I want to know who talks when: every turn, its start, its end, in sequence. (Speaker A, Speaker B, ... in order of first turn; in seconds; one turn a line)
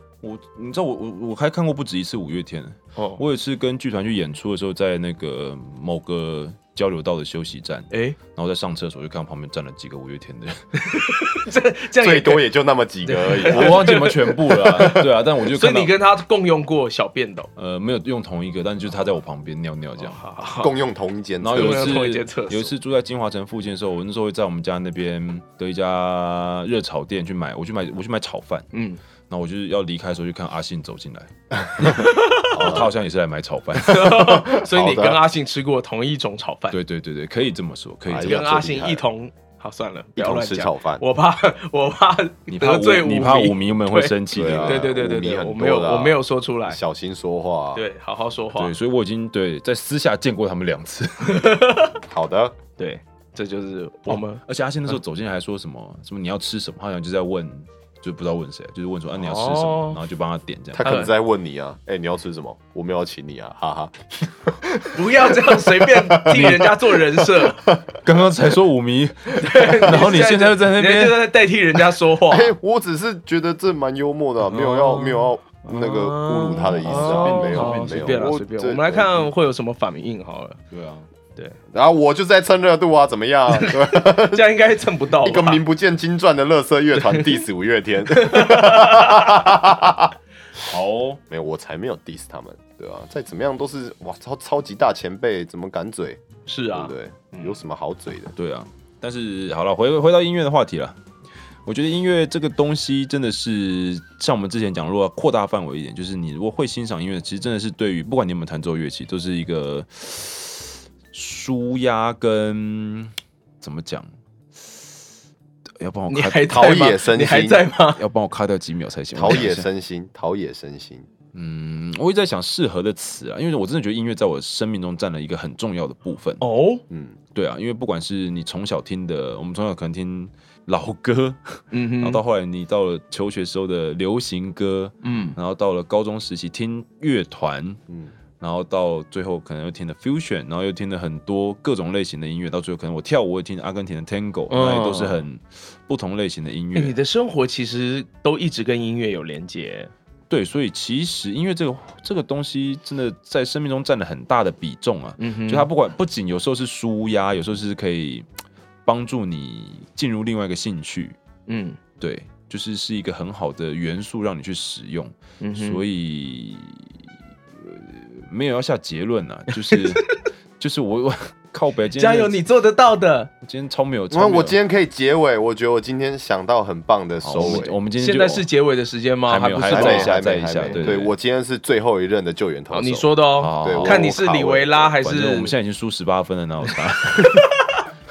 Speaker A: 0.2-10.6
Speaker B: 3.0-3.2
Speaker B: 7.9-8.2
Speaker B: 10.8-12.5
Speaker C: 12.0-13.9
Speaker B: 13.1-17.5
Speaker A: 13.4-15.9
Speaker A: 17.6-20.2
Speaker B: 20.0-20.7
Speaker C: 20.6-22.1
Speaker A: 21.4-28.7
Speaker B: 21.5-22.7
Speaker B: 28.7-29.0
Speaker A: 29.3-34.1
Speaker B: 31.8-32.8
Speaker C: 32.5-32.9
Speaker B: 33.8-36.8
Speaker C: 34.0-35.2
Speaker A: 36.7-38.5
Speaker C: 38.1-39.0
Speaker B: 38.2-46.8
Speaker C: 40.2-41.0
Speaker A: 42.5-44.9
Speaker C: 44.3-47.8
Speaker B: 47.8-48.8
Speaker A: 48.5-51.5
Speaker B: 51.2-52.0
Speaker C: 52.1-52.5
Speaker B: 52.8-54.4
Speaker A: 54.1-60.9
Speaker B: 59.1-60.0
Speaker C: 60.7-67.9
Speaker B: 60.8-61.1
Speaker B: 64.9-67.6
Speaker A: 68.0-71.2
Speaker B: 69.3-72.5
Speaker C: 72.3-79.3
Speaker B: 74.5-80.6
Speaker A: 76.7-78.2
Speaker A: 80.7-81.1
Speaker C: 81.7-84.5
Speaker B: 83.5-85.6
Speaker C: 85.2-90.1
Speaker B: 87.0-87.4
Speaker B: 88.1-89.5
Speaker A: 90.6-91.2
Speaker C: 91.3-98.3
Speaker B: 96.5-97.6
Speaker A: 98.3-101.0
Speaker A: 101.7-114.9
Speaker A: 115.8-116.5
Speaker B: 116.1-118.0
Speaker C: 116.5-117.7
Speaker A: 118.0-119.7
Speaker C: 119.1-121.1
Speaker A: 121.3-126.4
Speaker B: 126.4-126.8
Speaker C: 126.9-127.2
Speaker A: 127.3-137.8
Speaker B: 131.7-132.2
Speaker B: 135.0-135.4
Speaker C: 137.9-138.2
Speaker A: 138.4-147.0
Speaker B: 144.5-145.2
Speaker B: 146.7-149.9
Speaker A: 150.3-158.3
Speaker B: 155.2-155.7
Speaker A: 158.9-161.2
Speaker B: 161.5-161.8
Speaker A: 162.0-167.0
Speaker B: 165.4-165.8
Speaker A: 167.6-170.1
Speaker B: 169.7-170.2
Speaker A: 170.6-172.4
Speaker B: 172.0-173.3
Speaker A: 173.4-174.6
Speaker C: 174.1-177.8
Speaker A: 177.2-178.5
Speaker B: 177.5-180.9
Speaker A: 179.3-181.1
Speaker C: 179.7-184.9
Speaker B: 182.7-185.5
Speaker A: 183.4-184.1
Speaker A: 184.9-187.4
Speaker B: 187.2-187.8